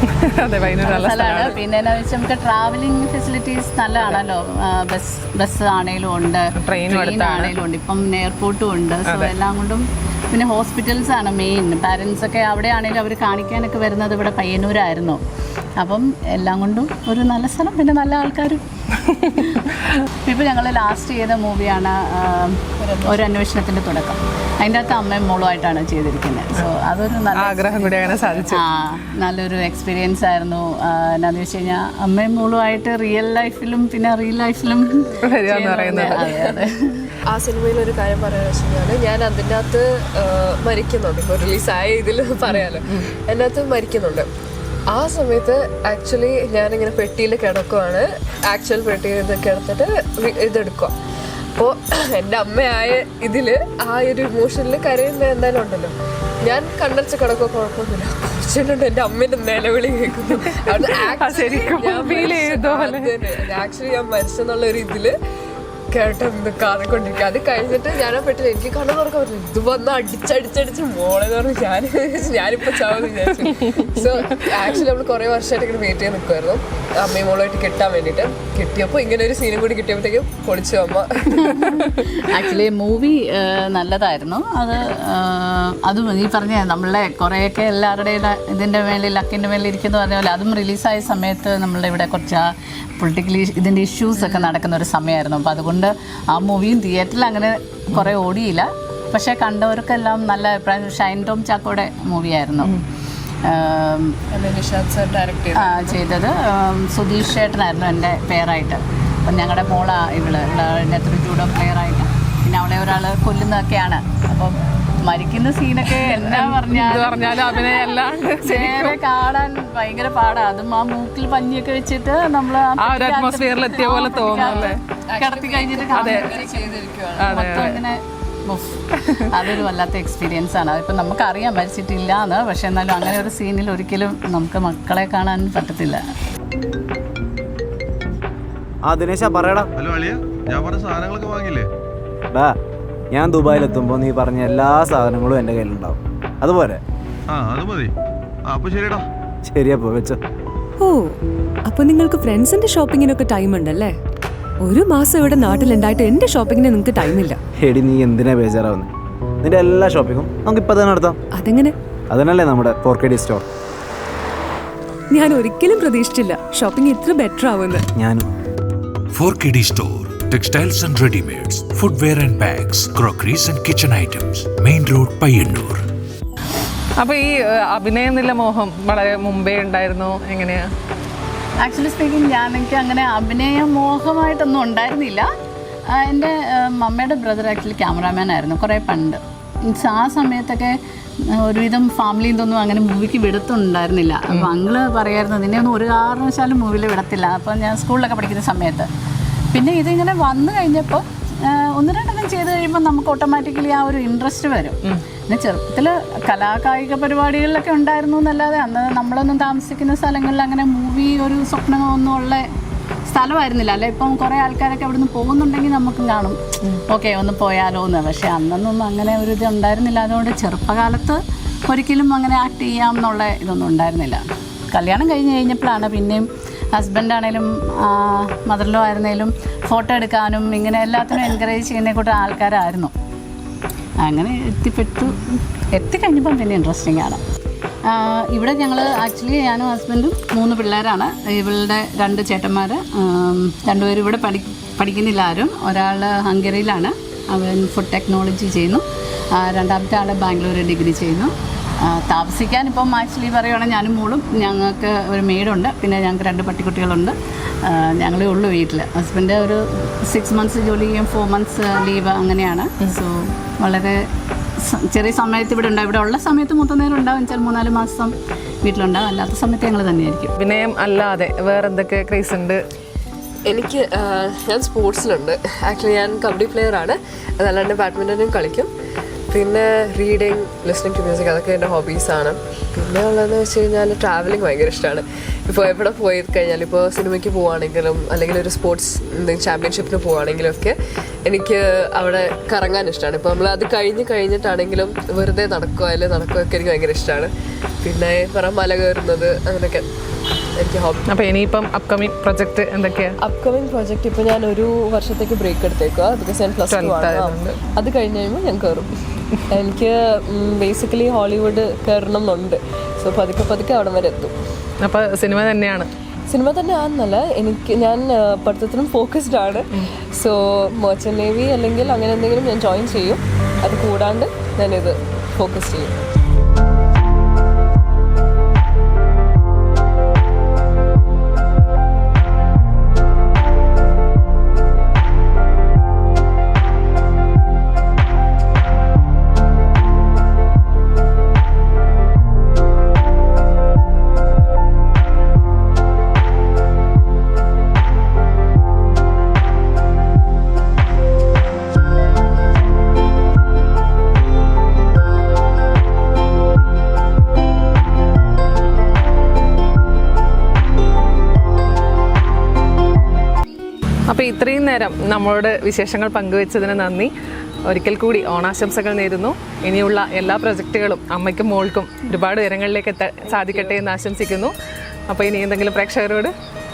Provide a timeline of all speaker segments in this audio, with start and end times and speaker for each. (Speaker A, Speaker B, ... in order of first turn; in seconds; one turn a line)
Speaker A: 0.2-1.5
Speaker B: 0.8-15.2
Speaker A: 6.6-7.5
Speaker B: 15.8-18.6
Speaker A: 19.1-19.8
Speaker B: 20.3-35.2
Speaker C: 22.8-23.3
Speaker A: 27.4-28.6
Speaker C: 35.2-36.6
Speaker A: 35.3-36.2
Speaker B: 36.0-36.7
Speaker C: 37.3-44.3
Speaker C: 44.9-51.0
Speaker C: 51.6-65.1
Speaker A: 60.7-63.2
Speaker C: 65.9-81.8
Speaker B: 81.4-92.5
Speaker B: 93.0-102.8
Speaker B: 103.5-104.2
Speaker C: 104.3-106.0
Speaker B: 105.6-126.8
Speaker A: 116.1-119.0
Speaker A: 122.8-124.8
Speaker C: 124.3-127.4
Speaker A: 126.0-126.3
Speaker A: 127.2-127.8
Speaker B: 127.3-136.0
Speaker D: 138.9-139.7
Speaker E: 139.8-141.7
Speaker D: 143.1-146.8
Speaker E: 147.3-147.9
Speaker E: 148.5-149.1
Speaker D: 149.5-150.2
Speaker F: 151.7-153.9
Speaker F: 154.7-157.4
Speaker D: 157.6-158.9
Speaker D: 159.4-161.2
Speaker F: 161.4-161.7
Speaker D: 162.1-163.4
Speaker F: 165.1-167.8
Speaker D: 168.0-168.2
Speaker G: 169.1-175.8
Speaker A: 177.0-180.7
Speaker B: 181.6-185.3
Speaker B: 186.0-190.8
Speaker B: 191.4-198.9
Speaker B: 199.5-212.4
Speaker B: 213.1-232.9
Speaker B: 234.0-235.2
Speaker B: 235.8-237.2
Speaker B: 237.9-248.8
Speaker B: 249.4-251.3
Speaker B: 251.9-257.1
Speaker B: 257.7-264.0
Speaker B: 264.9-268.1
Speaker B: 268.6-270.3
Speaker A: 270.4-272.6
Speaker C: 273.5-278.7
Speaker C: 279.3-297.3
Speaker C: 297.8-299.9
Speaker C: 300.6-301.1
Speaker A: 301.1-303.1
Speaker C: 303.2-308.9
Speaker A: 306.7-307.6
Speaker C: 309.5-314.4
Speaker A: 314.8-315.9
Speaker C: 316.3-326.1
Speaker A: 364.1-367.1
Speaker A: 367.7-374.5
Speaker A: 375.1-376.3